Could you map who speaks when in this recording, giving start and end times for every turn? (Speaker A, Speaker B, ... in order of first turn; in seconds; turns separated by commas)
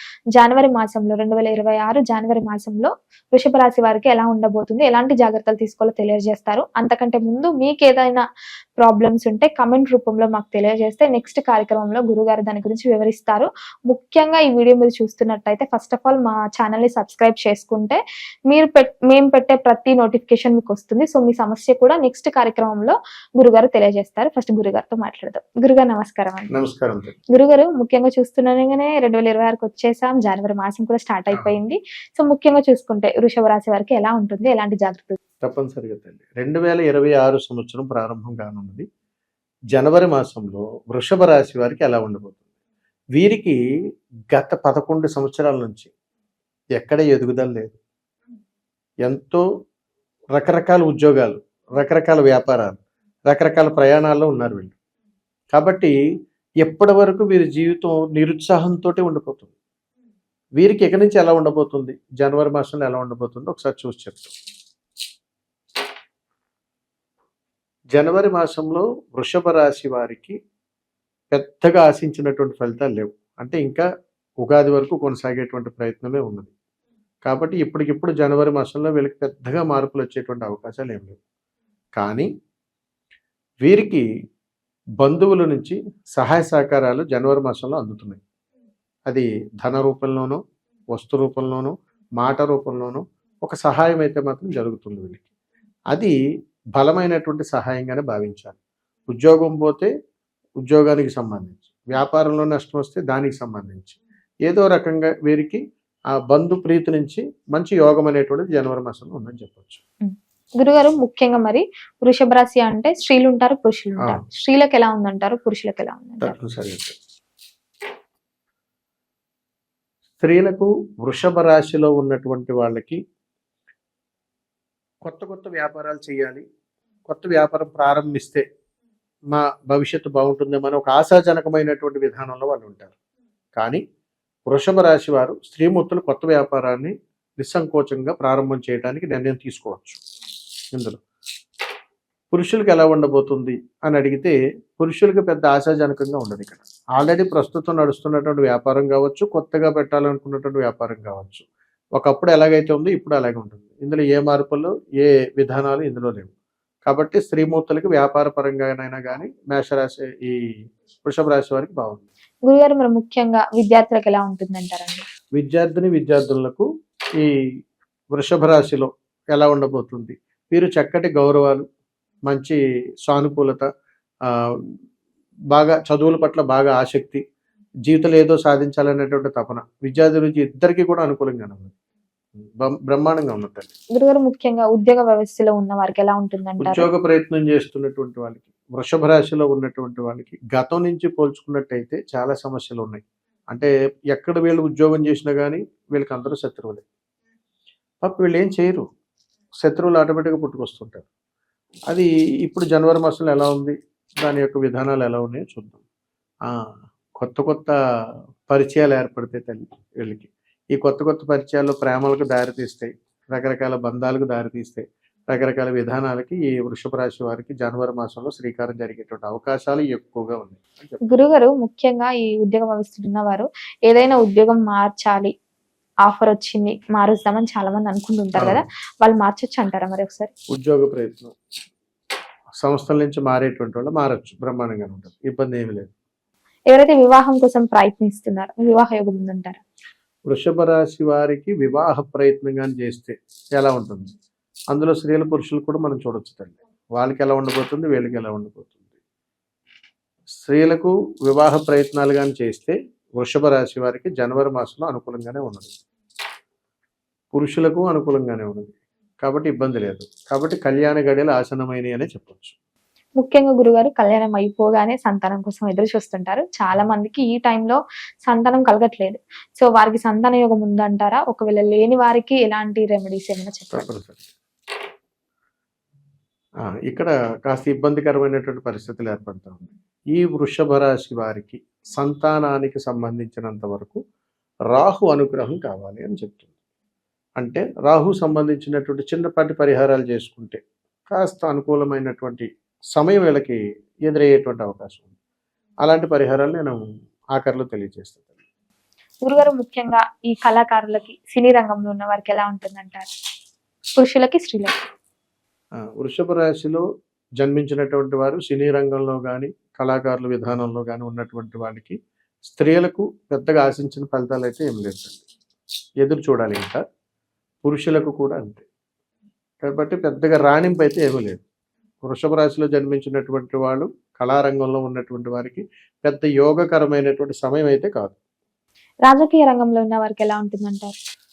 Speaker A: 0.4-8.2, Speaker A: 8.8-26.6, Speaker B: 26.5-27.1, Speaker A: 27.3-35.2, Speaker B: 35.4-38.9, Speaker B: 39.7-42.4, Speaker B: 43.2-43.6, Speaker B: 44.3-45.9, Speaker B: 46.8-47.8, Speaker B: 49.0-49.5, Speaker B: 50.4-54.7, Speaker B: 55.5-56.0, Speaker B: 56.6-59.5, Speaker B: 60.6-64.3, Speaker B: 67.9-70.4, Speaker B: 71.3-73.9, Speaker B: 74.4-76.5, Speaker B: 77.2-81.2, Speaker B: 82.0-82.3, Speaker B: 83.6-84.0, Speaker B: 85.0-88.2, Speaker B: 89.1-90.4, Speaker B: 90.9-95.2, Speaker B: 96.8-98.6, Speaker B: 99.1-99.9, Speaker B: 100.7-109.8, Speaker A: 110.0-116.4, Speaker B: 116.2-117.0, Speaker B: 120.2-123.0, Speaker B: 125.0-126.4, Speaker B: 127.1-128.4, Speaker B: 129.3-132.9, Speaker B: 133.6-133.8, Speaker B: 134.5-140.0, Speaker B: 140.7-141.0, Speaker B: 142.3-151.4, Speaker B: 152.0-156.3, Speaker B: 156.9-162.1, Speaker A: 162.5-165.1, Speaker B: 165.3-166.7, Speaker B: 168.1-171.7, Speaker B: 172.3-173.7, Speaker B: 174.3-174.8, Speaker B: 175.5-177.2, Speaker B: 177.9-181.7, Speaker B: 182.4-183.7, Speaker A: 183.9-186.9, Speaker B: 186.6-196.8, Speaker B: 198.0-198.9, Speaker B: 199.6-201.1, Speaker B: 201.9-205.8, Speaker B: 206.4-207.8, Speaker B: 208.5-221.2, Speaker A: 221.1-225.3, Speaker A: 226.1-230.3, Speaker B: 228.4-228.6, Speaker B: 230.5-231.4, Speaker B: 232.6-235.9, Speaker A: 236.7-239.6, Speaker B: 240.3-244.1, Speaker B: 244.7-248.8, Speaker B: 250.4-255.7, Speaker B: 257.3-262.6, Speaker A: 263.2-273.9, Speaker B: 273.7-274.3, Speaker B: 276.7-284.0, Speaker B: 284.7-286.5, Speaker B: 287.4-295.1, Speaker B: 295.8-296.8, Speaker B: 297.4-298.3, Speaker A: 299.2-303.1, Speaker A: 304.0-304.8, Speaker B: 305.8-306.9, Speaker B: 307.4-315.2, Speaker B: 316.0-316.8, Speaker B: 317.6-318.6, Speaker B: 319.6-321.4, Speaker B: 322.0-328.2, Speaker A: 329.1-330.9